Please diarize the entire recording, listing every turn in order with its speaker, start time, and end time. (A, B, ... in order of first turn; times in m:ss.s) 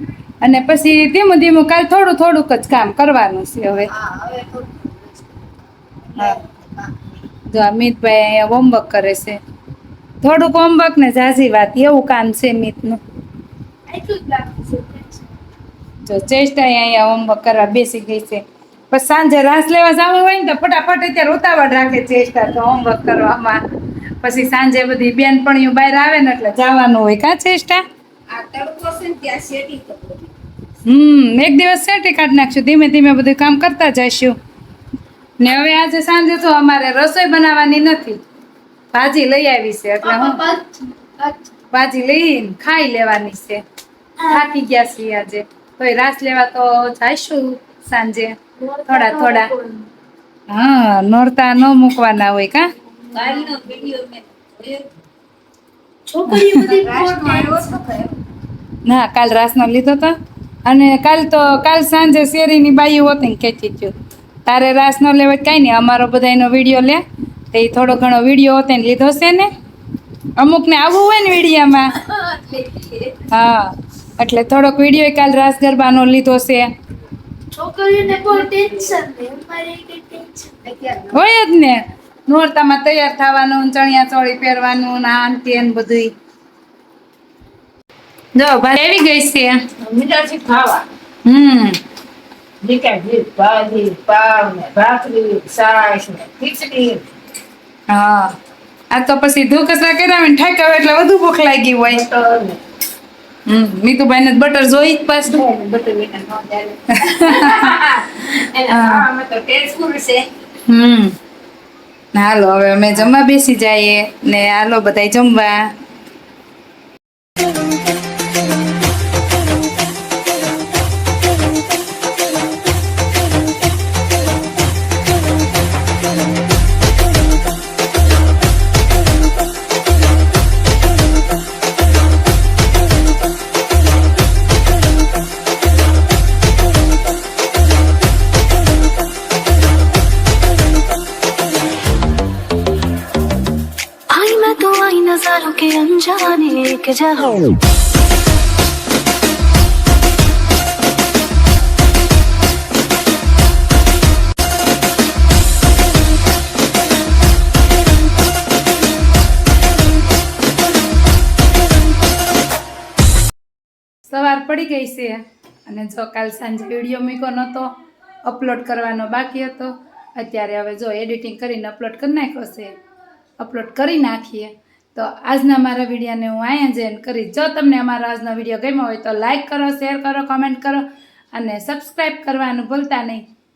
0:00.4-0:03.9 A
0:03.8-0:06.9 B
0:07.5-0:09.4 A
0:10.2-0:13.0 A
0:13.9-0:15.2 B
0:16.1-0:23.6 A
0:24.2-0:27.8 A
0:28.3-0:30.3 B
0:30.9-0:34.4 A
0:35.4-0:38.2 A
0:38.9-0:40.4 A
0:40.0-0:41.4 B
0:41.7-0:43.6 A
0:44.3-0:49.5 A
0:49.1-0:49.8 C
0:50.5-0:52.7 A
0:53.1-0:54.8 B
0:56.1-0:57.4 C
0:56.3-0:56.8 A
0:56.3-0:58.2 B
0:58.8-1:03.9 A
1:04.5-1:09.5 A
1:10.4-1:12.0 A
1:12.0-1:13.2 B
1:13.3-1:16.7 A
1:17.6-1:20.5 C
1:18.0-1:19.1 B
1:20.6-1:21.2 B
1:21.1-1:26.1 A
1:28.4-1:29.6 A
1:29.8-1:30.8 B
1:31.2-1:31.8 A
1:32.6-1:37.0 B
1:37.9-1:38.3 A
1:38.9-1:42.0 A
1:41.9-1:42.6 B
1:43.5-1:45.4 A
1:45.3-1:50.3 B
1:46.9-1:47.8 A
1:48.7-1:49.0 A
1:50.7-1:51.2 A
1:52.1-1:55.7 A
2:24.1-2:27.5 D
2:44.0-2:47.8 A
2:48.3-2:52.7 A
2:53.4-3:03.2 A